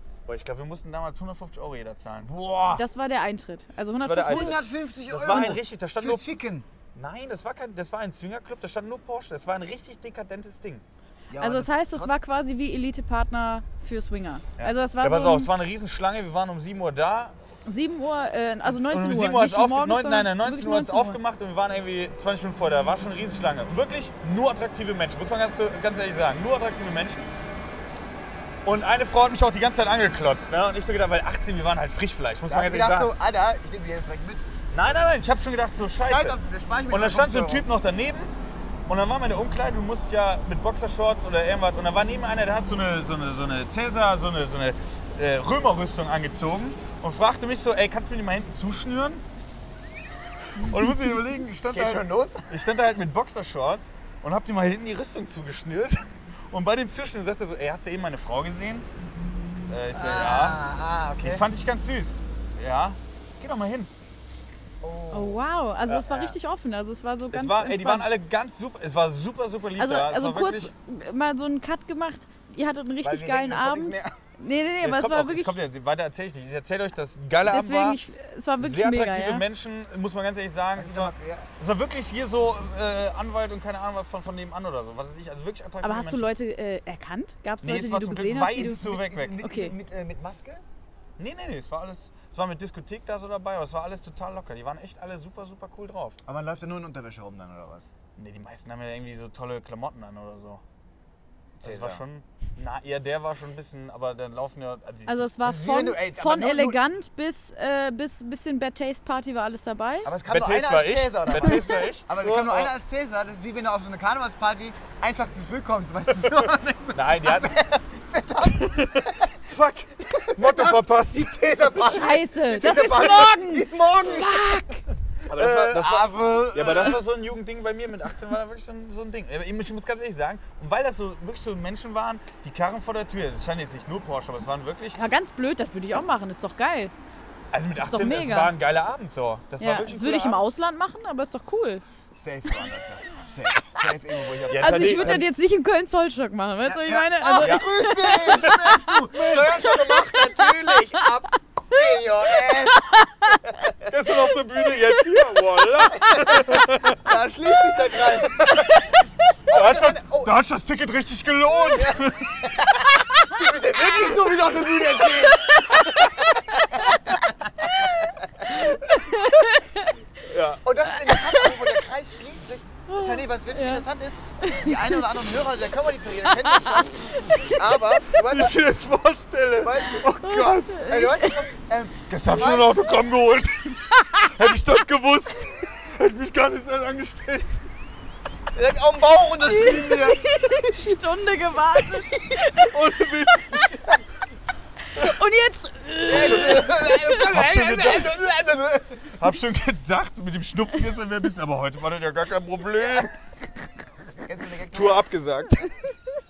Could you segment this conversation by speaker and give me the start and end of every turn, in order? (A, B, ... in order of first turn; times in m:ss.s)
0:00.3-0:02.3 A
0:02.2-0:02.8 B
0:02.7-0:04.6 C
0:04.0-0:06.3 A
0:04.2-0:06.7 B
0:05.3-0:05.6 C
0:06.9-0:10.8 A
0:11.3-0:12.2 B
0:11.4-0:15.5 C
0:15.0-0:17.4 A
0:17.6-0:21.2 C
0:18.6-0:27.3 A
0:28.6-0:33.1 A
0:32.5-0:34.5 B
0:34.7-0:36.4 A
0:36.0-0:37.7 B
0:36.9-0:38.3 A
0:38.9-0:49.2 A
0:50.6-0:58.9 A
0:51.7-0:52.6 B
0:59.7-1:00.6 A
0:59.9-1:01.4 B
1:01.2-1:03.9 A
1:04.8-1:05.4 B
1:05.1-1:08.1 C
1:05.9-1:06.3 B
1:07.3-1:10.7 A
1:09.8-1:15.6 C
1:13.0-1:14.2 B
1:14.8-1:18.0 A
1:17.4-1:19.4 C
1:18.6-1:26.3 A
1:20.8-1:21.5 B
1:25.8-1:29.8 C
1:27.6-1:29.4 A
1:28.6-1:30.6 B
1:31.2-1:36.2 A
1:36.3-1:37.9 B
1:38.2-1:40.6 A
1:41.6-1:42.0 B
1:41.6-1:45.3 A
1:45.1-1:50.1 C
1:45.4-1:46.8 B
1:50.0-1:59.4 B
1:50.3-1:52.7 A
1:56.9-1:57.5 A
1:58.6-2:01.4 A
2:00.0-2:04.7 B
2:01.9-2:04.8 C
2:05.3-2:15.0 A
2:05.3-2:07.0 B
2:15.0-2:16.9 C
2:17.5-2:20.4 A
2:17.8-2:18.5 C
2:19.6-2:21.8 C
2:22.1-2:25.3 B
2:24.5-2:25.3 A
2:24.6-2:28.6 C
2:26.6-2:34.0 B
2:27.4-2:30.1 A
2:30.4-2:31.0 C
2:32.7-2:33.4 C
2:33.9-2:37.2 A
2:36.0-2:38.7 B
2:37.8-2:38.9 A
2:39.5-2:46.2 A
2:39.5-2:40.4 B
2:41.7-2:48.7 B
2:48.6-2:49.9 C
2:50.2-2:50.7 A
2:50.6-2:58.6 B
2:51.1-2:51.8 C
2:52.9-2:53.9 C
2:54.4-2:55.2 C
2:56.2-2:58.0 C
2:58.1-3:00.8 A
2:59.6-3:00.1 B
3:00.2-3:01.5 C
3:00.8-3:02.8 B
3:02.1-3:07.7 A
3:08.5-3:10.6 B
3:09.4-3:13.7 C
3:12.5-3:13.9 A
3:14.9-3:17.3 C
3:16.1-3:23.2 A
3:16.1-3:19.1 B
3:24.2-3:25.1 B
3:24.7-3:25.9 A